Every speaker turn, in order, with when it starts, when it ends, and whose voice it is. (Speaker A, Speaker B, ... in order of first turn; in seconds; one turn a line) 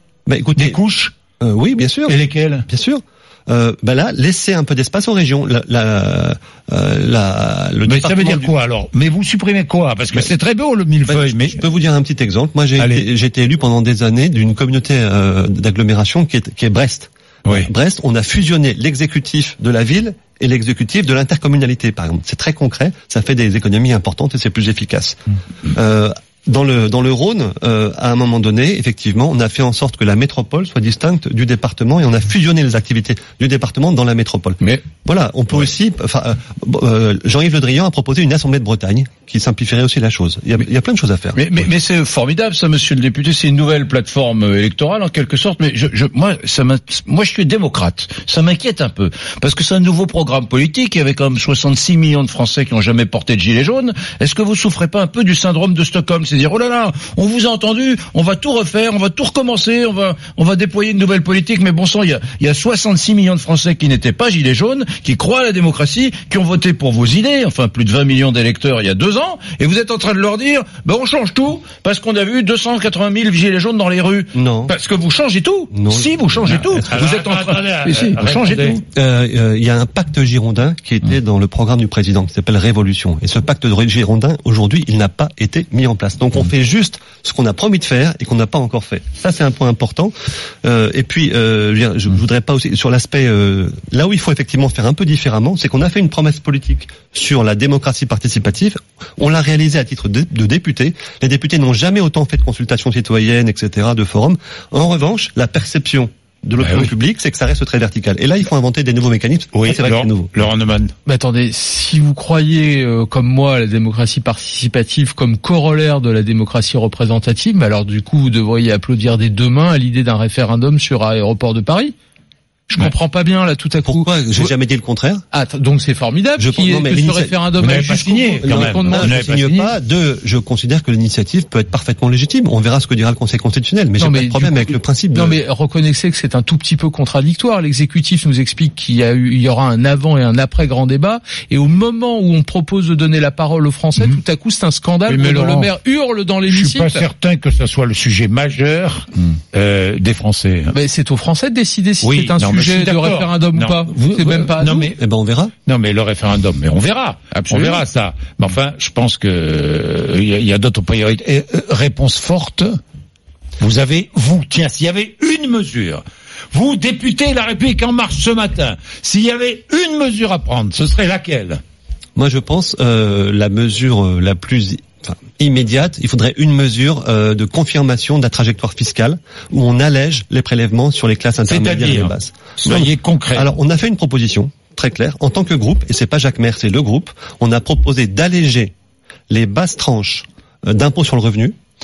Speaker A: 0.3-0.8
Speaker B: 0.6-1.1
Speaker A: 1.4-2.2
Speaker B: 2.1-2.6
Speaker A: 2.7-8.5
Speaker B: 7.8-11.6
Speaker A: 11.1-25.2
Speaker A: 25.7-41.5
Speaker C: 41.4-78.8
Speaker A: 74.3-74.7
Speaker A: 75.7-77.0
Speaker B: 76.7-78.8
Speaker A: 78.9-90.1
Speaker A: 90.6-110.3
Speaker B: 106.6-106.9
Speaker B: 109.5-110.9
Speaker D: 111.0-121.9
Speaker D: 122.7-124.5
Speaker A: 123.8-125.2
Speaker D: 125.3-129.7
Speaker A: 126.4-127.4
Speaker B: 127.6-129.6
Speaker A: 128.4-135.4
Speaker D: 134.0-147.1
Speaker B: 145.1-145.7
Speaker B: 146.5-150.7
Speaker D: 150.7-154.9
Speaker B: 152.0-155.0
Speaker A: 155.0-155.5
Speaker B: 155.7-162.8
Speaker C: 157.4-157.8
Speaker B: 163.6-171.6
Speaker A: 172.2-188.7
Speaker B: 181.5-183.5
Speaker A: 189.3-191.6